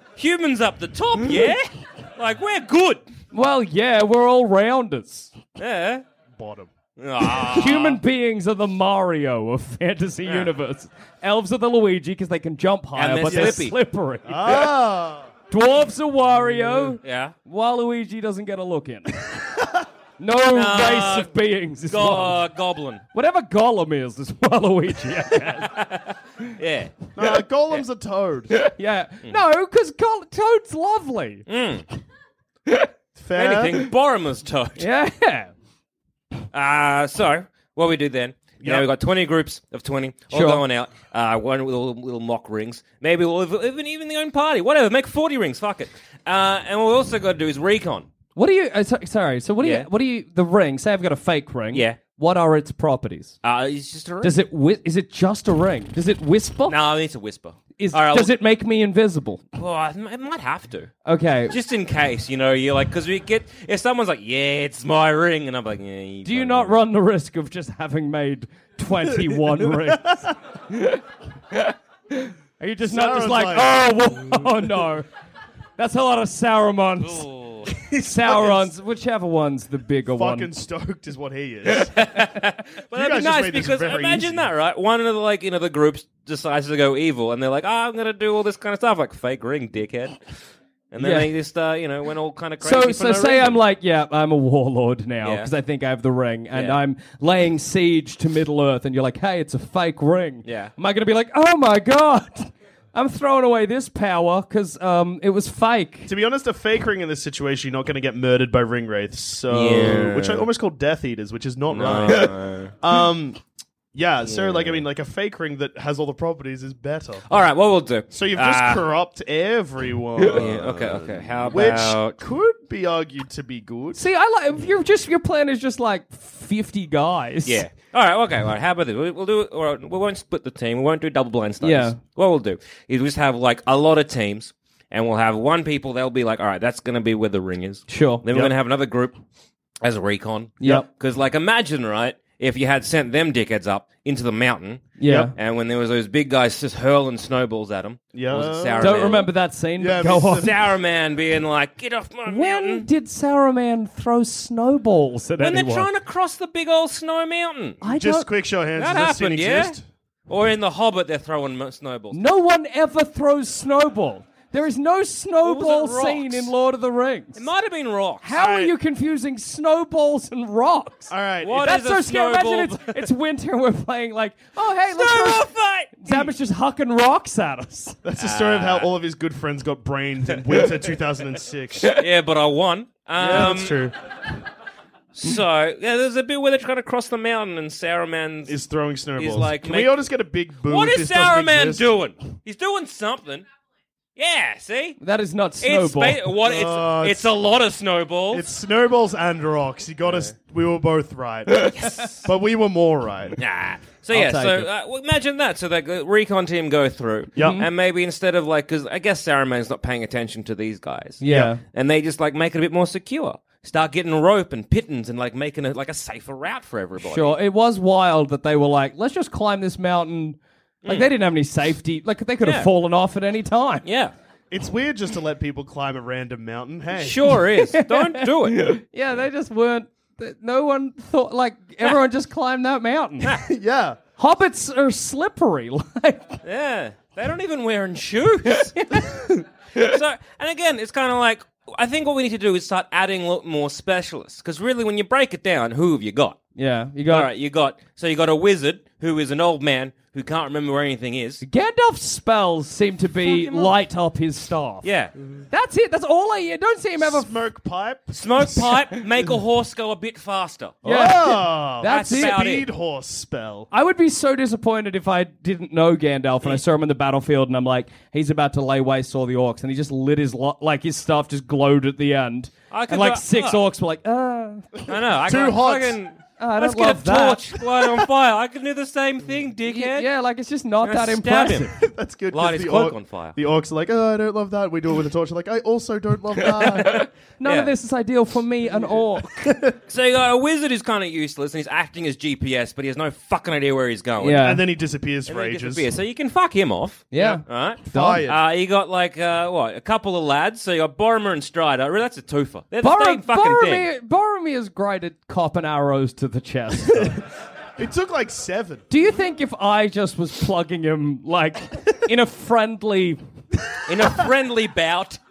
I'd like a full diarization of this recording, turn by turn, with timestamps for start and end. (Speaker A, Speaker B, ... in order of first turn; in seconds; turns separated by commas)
Speaker A: 0.2-3.0, Speaker B: 3.3-5.3, Speaker A: 5.6-6.0, Speaker C: 6.4-6.7, Speaker A: 7.0-8.0, Speaker B: 7.5-14.7, Speaker A: 10.2-10.5, Speaker A: 12.9-13.8, Speaker C: 14.3-15.3, Speaker B: 15.5-19.3, Speaker A: 17.0-17.3, Speaker B: 20.2-22.4, Speaker A: 20.5-21.3, Speaker A: 21.9-23.0, Speaker B: 23.1-25.8, Speaker A: 25.6-26.9, Speaker C: 27.1-28.5, Speaker B: 28.5-31.5, Speaker A: 31.5-31.9, Speaker C: 33.2-33.9, Speaker A: 33.4-34.9, Speaker B: 34.8-35.5, Speaker A: 36.5-48.1, Speaker C: 38.6-38.9, Speaker B: 40.3-40.6, Speaker B: 48.4-53.4, Speaker A: 49.6-49.9, Speaker A: 51.7-52.0, Speaker A: 53.4-54.4, Speaker B: 54.2-56.8, Speaker A: 56.7-58.4, Speaker B: 57.8-59.4, Speaker A: 59.6-60.9, Speaker B: 61.1-61.6, Speaker A: 61.5-66.8, Speaker B: 66.2-71.0, Speaker C: 69.5-70.3, Speaker B: 71.5-75.1, Speaker C: 72.8-74.5, Speaker B: 75.8-77.3, Speaker A: 77.0-77.7, Speaker C: 77.9-78.7, Speaker B: 78.0-80.5, Speaker C: 80.1-82.3, Speaker A: 81.7-90.2, Speaker C: 82.9-84.4, Speaker A: 90.9-93.6, Speaker B: 91.0-91.3, Speaker B: 92.6-106.1, Speaker A: 95.2-95.5, Speaker A: 96.5-96.8, Speaker A: 100.5-100.7, Speaker C: 106.1-113.4, Speaker A: 109.5-110.5, Speaker A: 111.7-112.7, Speaker C: 113.9-117.2, Speaker A: 114.2-114.8, Speaker A: 117.3-118.9, Speaker C: 118.1-124.0, Speaker A: 120.3-122.2, Speaker B: 124.0-127.7, Speaker A: 127.5-139.2, Speaker B: 131.6-132.0, Speaker B: 137.9-138.2, Speaker A: 139.8-149.3, Speaker B: 140.6-140.9, Speaker B: 145.0-145.3, Speaker C: 148.1-149.2, Speaker B: 148.8-150.5, Speaker C: 149.8-150.6, Speaker A: 150.1-152.9, Speaker B: 152.3-155.9, Speaker A: 155.4-157.8, Speaker B: 157.8-158.3, Speaker C: 157.8-159.8, Speaker A: 158.8-159.8, Speaker A: 160.3-162.2, Speaker B: 162.1-167.5, Speaker A: 165.4-166.5, Speaker A: 167.4-168.7, Speaker B: 168.2-178.0, Speaker C: 171.1-171.7, Speaker A: 171.4-173.1, Speaker A: 174.9-176.3, Speaker C: 178.0-182.0, Speaker A: 178.2-178.9, Speaker A: 181.9-183.8, Speaker C: 183.2-183.9, Speaker A: 185.1-188.6, Speaker C: 188.5-191.9, Speaker A: 189.2-190.0, Speaker A: 190.7-193.4, Speaker A: 194.2-195.0, Speaker B: 195.0-196.3, Speaker A: 195.6-198.5, Speaker C: 196.4-197.3, Speaker C: 198.3-203.4, Speaker A: 200.1-200.3, Speaker A: 201.7-202.3, Speaker A: 203.4-217.3, Speaker B: 204.1-204.7, Speaker C: 207.4-207.6, Speaker B: 207.4-207.7, Speaker B: 211.2-211.6, Speaker C: 211.3-211.5, Speaker B: 217.0-223.8, Speaker A: 220.8-221.1, Speaker A: 222.4-222.7, Speaker A: 223.8-224.1, Speaker C: 224.5-227.4, Speaker A: 226.9-228.7, Speaker B: 227.6-233.3, Speaker C: 233.4-234.0, Speaker B: 234.2-236.4, Speaker A: 236.4-239.1, Speaker B: 238.8-239.3, Speaker A: 239.8-246.4, Speaker B: 246.6-247.3, Speaker A: 247.1-251.4, Speaker B: 251.4-254.9, Speaker A: 253.2-253.7, Speaker A: 254.8-255.1, Speaker B: 255.5-257.3, Speaker C: 257.0-258.7, Speaker A: 258.1-260.8, Speaker C: 260.8-263.7, Speaker B: 260.9-262.4, Speaker A: 261.8-262.7, Speaker B: 263.7-274.7, Speaker A: 272.7-273.6, Speaker A: 274.9-280.1, Speaker C: 275.2-276.0, Speaker B: 276.4-277.7, Speaker B: 279.7-281.7, Speaker A: 280.8-281.7, Speaker C: 281.8-287.1, Speaker A: 282.3-283.4, Speaker A: 286.6-287.7, Speaker B: 286.8-289.5, Speaker A: 289.9-294.6, Speaker B: 294.2-294.6, Speaker C: 294.4-295.9, Speaker A: 295.3-303.9, Speaker B: 297.1-298.3, Speaker C: 297.9-298.4, Speaker B: 302.8-307.2, Speaker C: 307.8-308.8, Speaker B: 308.9-313.2, Speaker A: 313.9-315.2